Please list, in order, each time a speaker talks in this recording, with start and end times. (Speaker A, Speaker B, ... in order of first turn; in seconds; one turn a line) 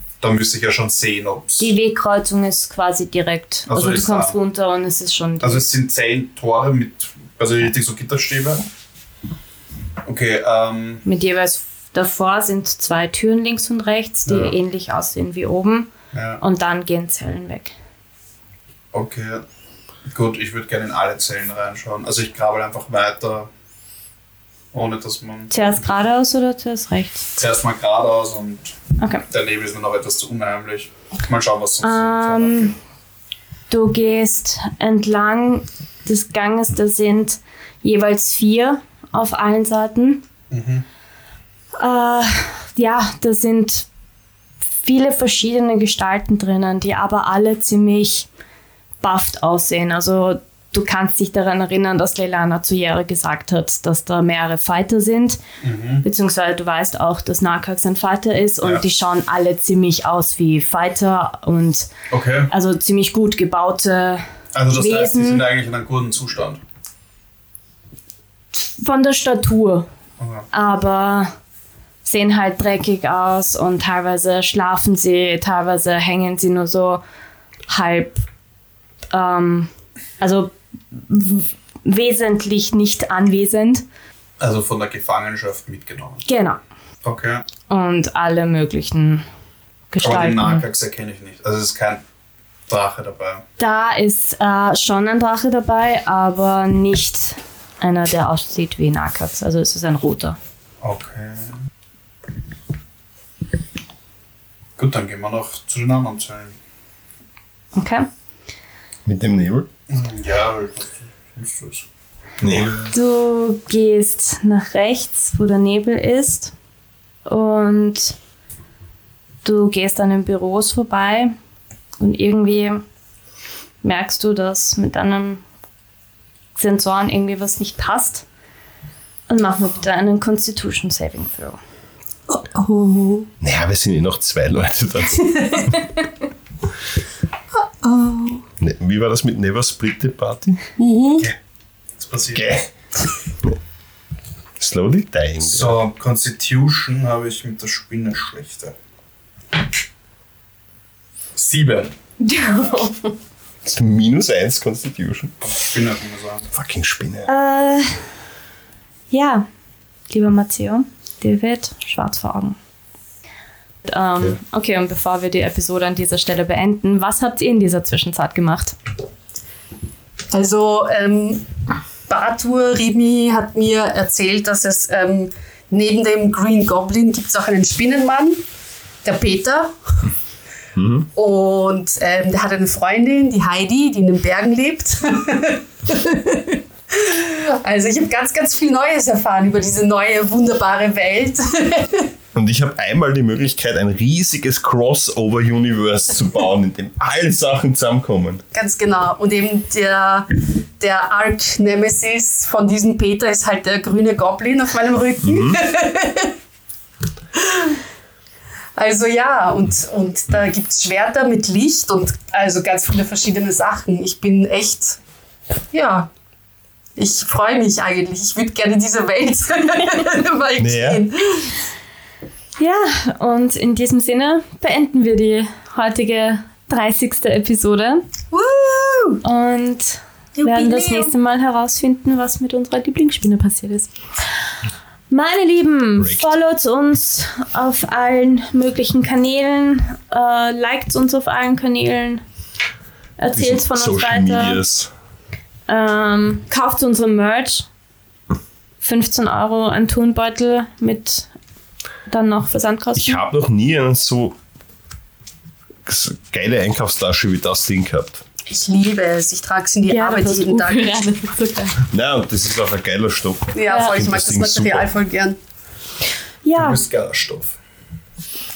Speaker A: 0.2-1.7
Speaker B: 1.6-5.7
Speaker A: 3.7-4.4
Speaker A: 5.4-8.6
Speaker A: 10.1-11.0
Speaker B: 11.0-17.7
Speaker A: 14.2-14.6
Speaker A: 16.1-16.4
Speaker A: 18.9-19.4
Speaker A: 20.1-23.5
Speaker A: 24.7-25.5
Speaker B: 25.5-27.3
Speaker A: 27.4-28.8
Speaker B: 29.0-29.2
Speaker A: 29.3-32.7
Speaker B: 31.8-32.8
Speaker B: 33.7-40.2
Speaker A: 40.5-40.8
Speaker B: 41.8-43.9
Speaker B: 44.8-48.3
Speaker B: 49.0-55.4
Speaker A: 55.6-56.0
Speaker B: 56.0-61.9
Speaker A: 62.1-62.5
Speaker B: 62.5-65.5
Speaker A: 64.5-66.6
Speaker B: 68.5-69.9
Speaker A: 70.2-70.5
Speaker B: 70.5-71.3
Speaker B: 72.0-77.0
Speaker B: 77.7-78.2
Speaker B: 79.1-83.8
Speaker A: 84.4-86.2
Speaker B: 86.2-86.6
Speaker A: 87.0-87.5
Speaker B: 87.7-89.2
Speaker B: 89.9-90.6
Speaker A: 90.0-92.0
Speaker A: 92.7-93.4
Speaker B: 93.6-100.4
Speaker A: 100.8-101.6
Speaker A: 104.8-106.5
Speaker B: 107.7-108.1
Speaker C: 109.0-109.7
Speaker A: 109.9-111.8
Speaker A: 112.4-112.9
Speaker C: 112.4-112.8
Speaker B: 112.9-116.5
Speaker B: 117.2-118.2
Speaker B: 119.4-121.3
Speaker B: 122.0-122.8
Speaker B: 123.8-125.4
Speaker B: 126.5-128.2
Speaker B: 129.3-131.6
Speaker D: 132.3-133.3
Speaker C: 133.4-135.7
Speaker D: 135.4-135.7
Speaker D: 137.5-138.4
Speaker C: 138.6-140.6
Speaker D: 140.8-141.3
Speaker A: 142.0-142.4
Speaker C: 142.3-142.7
Speaker C: 144.6-145.8
Speaker A: 145.4-148.7
Speaker A: 151.3-151.9
Speaker B: 152.2-153.1
Speaker C: 153.6-155.7
Speaker A: 155.5-156.5
Speaker C: 156.5-157.3
Speaker B: 157.3-158.0
Speaker B: 159.1-159.5
Speaker B: 160.1-162.6
Speaker B: 163.8-168.8
Speaker D: 170.3-171.5
Speaker D: 172.1-178.4
Speaker D: 179.0-180.1
Speaker C: 180.8-181.1
Speaker D: 181.1-192.1
Speaker C: 192.3-198.4
Speaker D: 198.5-206.3
Speaker C: 205.2-205.6
Speaker D: 207.3-207.8
Speaker D: 208.8-215.0
Speaker D: 215.7-216.1
Speaker D: 216.9-221.6
Speaker C: 220.6-221.0
Speaker B: 222.6-228.1
Speaker D: 228.3-229.2
Speaker B: 229.2-234.0
Speaker D: 230.3-231.1
Speaker B: 235.1-242.2
Speaker C: 236.0-236.4
Speaker B: 243.2-244.6
Speaker C: 243.3-244.9
Speaker B: 245.7-247.7
Speaker B: 248.8-251.3
Speaker B: 252.1-253.2
Speaker C: 252.9-254.4
Speaker C: 255.8-258.2
Speaker D: 258.4-261.0
Speaker B: 259.9-261.8
Speaker C: 261.9-264.9
Speaker D: 263.5-265.4
Speaker B: 263.7-263.9
Speaker B: 266.4-266.8
Speaker A: 266.5-267.6